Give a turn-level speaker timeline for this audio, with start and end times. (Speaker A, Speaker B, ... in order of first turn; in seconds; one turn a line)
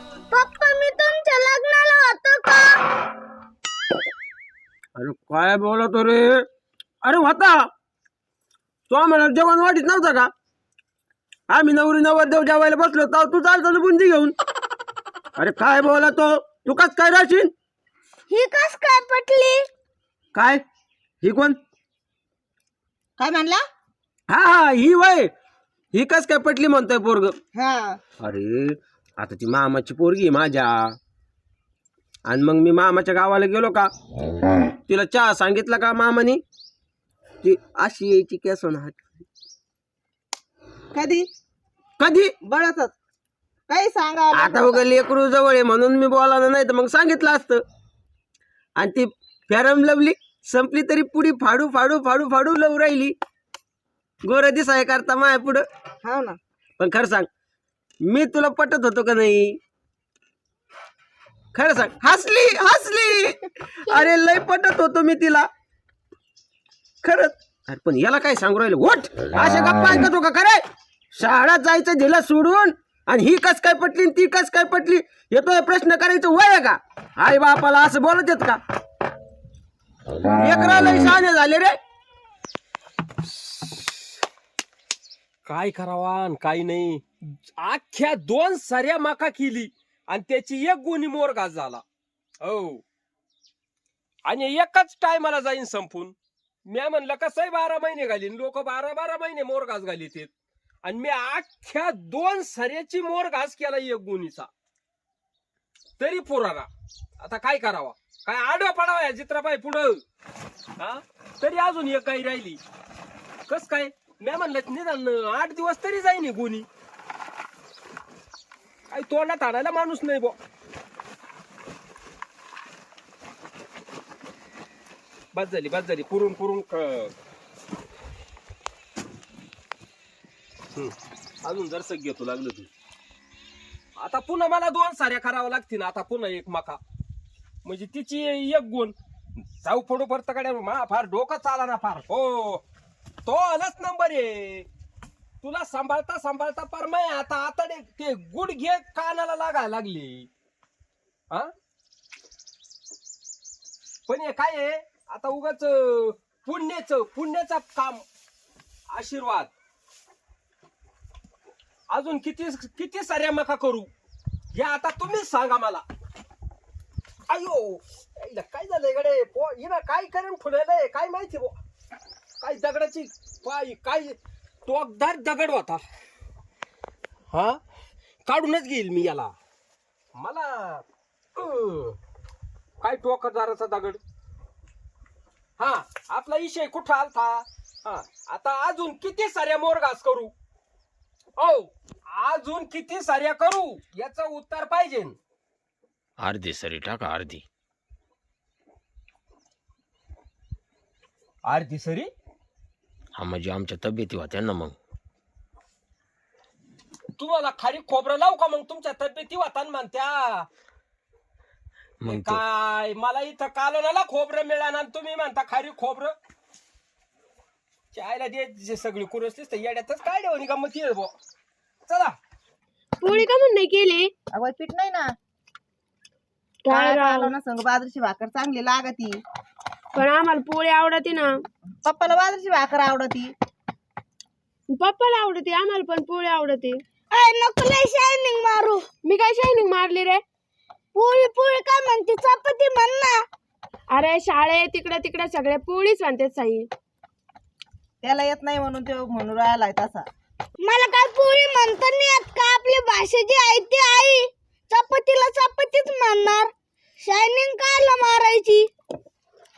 Speaker A: 0.3-2.8
Speaker B: 5.0-6.5
Speaker B: 7.0-7.7
Speaker B: 8.9-10.3
Speaker B: 11.5-14.3
Speaker B: 15.4-17.5
Speaker A: 18.3-19.6
Speaker B: 20.3-20.6
Speaker B: 21.2-21.6
Speaker C: 23.2-23.6
Speaker B: 24.3-25.3
Speaker B: 25.9-27.3
Speaker C: 27.6-28.0
Speaker B: 28.2-30.9
Speaker B: 32.3-33.9
Speaker B: 34.9-36.4
Speaker B: 37.4-39.0
Speaker C: 40.9-41.3
Speaker B: 42.0-42.3
Speaker C: 42.4-42.9
Speaker C: 43.7-44.8
Speaker B: 44.3-47.6
Speaker B: 48.8-53.1
Speaker B: 54.2-55.6
Speaker C: 56.0-56.4
Speaker B: 56.8-57.3
Speaker B: 58.0-59.6
Speaker B: 61.5-65.5
Speaker B: 67.0-70.6
Speaker B: 71.1-78.6
Speaker B: 80.3-81.8
Speaker D: 83.2-84.0
Speaker D: 85.4-91.8
Speaker D: 92.4-92.8
Speaker D: 94.2-96.1
Speaker D: 96.7-100.3
Speaker D: 100.8-104.5
Speaker D: 106.0-110.0
Speaker D: 110.8-112.6
Speaker D: 113.5-116.7
Speaker D: 118.9-120.4
Speaker D: 125.3-127.1
Speaker D: 130.7-132.7
Speaker D: 133.9-136.8
Speaker D: 137.6-138.9
Speaker D: 139.5-142.6
Speaker D: 143.2-144.7
Speaker D: 145.4-150.3
Speaker D: 154.1-158.0
Speaker D: 158.9-159.5
Speaker D: 161.9-163.9
Speaker D: 164.5-165.8
Speaker D: 167.3-171.6
Speaker D: 172.4-175.8
Speaker D: 177.3-177.6
Speaker D: 178.2-179.3
Speaker D: 180.1-180.8
Speaker D: 181.3-182.0
Speaker D: 182.8-184.0
Speaker D: 185.6-190.3
Speaker D: 191.4-195.2
Speaker B: 196.2-197.4
Speaker D: 201.4-202.1
Speaker B: 203.2-204.7
Speaker D: 207.2-210.5
Speaker B: 212.0-212.4
Speaker D: 212.0-216.1
Speaker D: 217.9-221.1
Speaker D: 221.9-222.2
Speaker E: 223.0-224.1
Speaker C: 224.3-225.1
Speaker E: 226.7-227.3
Speaker C: 226.7-229.2
Speaker E: 229.9-231.3
Speaker C: 231.8-233.3
Speaker E: 234.7-236.8
Speaker A: 237.1-238.9
Speaker E: 239.0-240.2
Speaker A: 240.9-243.2
Speaker E: 243.9-246.7
Speaker C: 248.0-250.1
Speaker A: 250.6-258.7